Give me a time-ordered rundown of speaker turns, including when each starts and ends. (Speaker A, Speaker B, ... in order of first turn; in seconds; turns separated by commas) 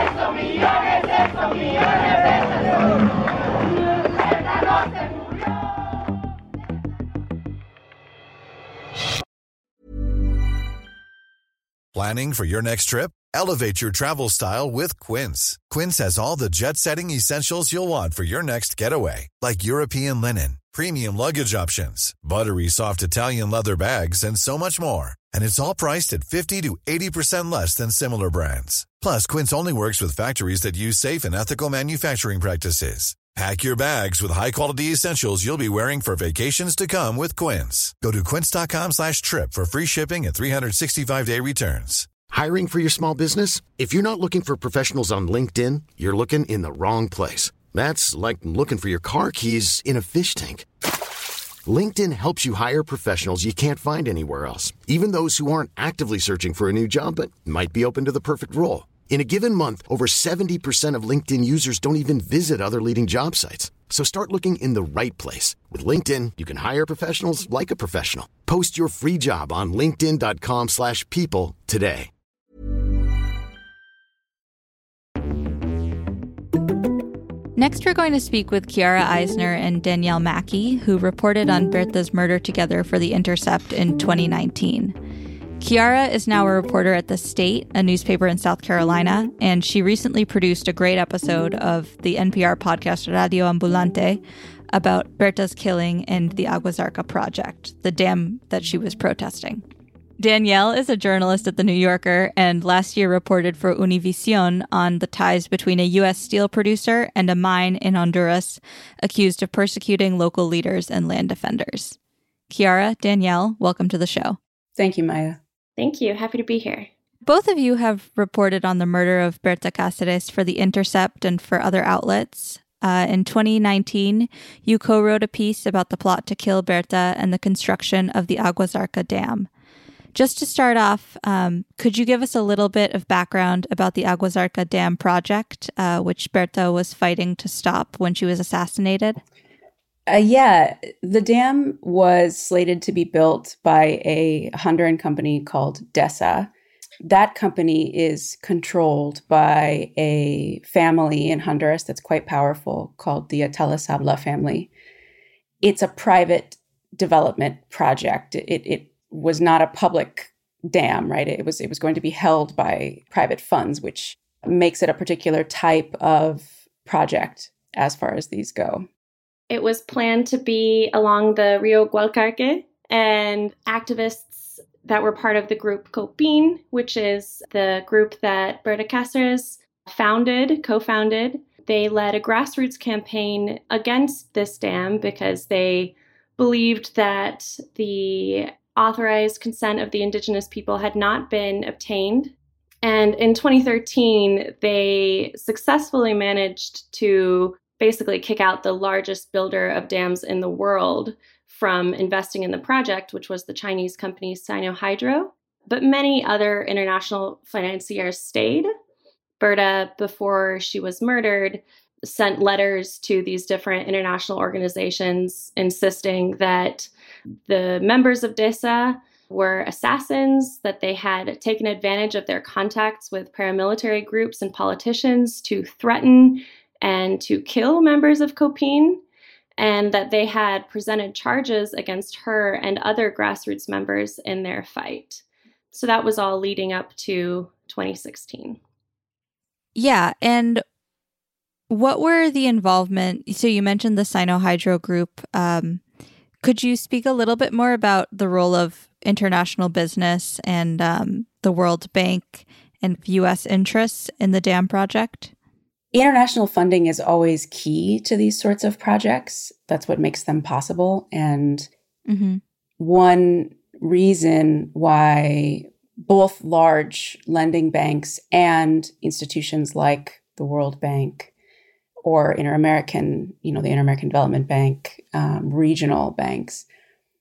Speaker A: 11.9-42.1, Speaker B: 42.3-50.6, Speaker B: 51.6-72.1, Speaker C: 77.5-84.9, Speaker C: 85.6-94.2, Speaker C: 94.7-99.6, Speaker C: 100.2-112.0, Speaker C: 112.5-114.4, Speaker D: 114.8-115.4, Speaker E: 115.8-116.9, Speaker C: 117.2-129.5, Speaker C: 130.1-139.2, Speaker D: 140.1-146.5, Speaker D: 147.0-154.7, Speaker D: 155.6-168.9, Speaker E: 169.5-208.7, Speaker E: 209.4-216.9, Speaker E: 217.4-229.0, Speaker E: 229.6-238.6, Speaker C: 239.7-240.6, Speaker C: 241.7-245.8, Speaker C: 246.4-255.3, Speaker D: 255.9-261.7, Speaker C: 262.1-262.4, Speaker D: 262.8-271.3, Speaker D: 272.0-276.6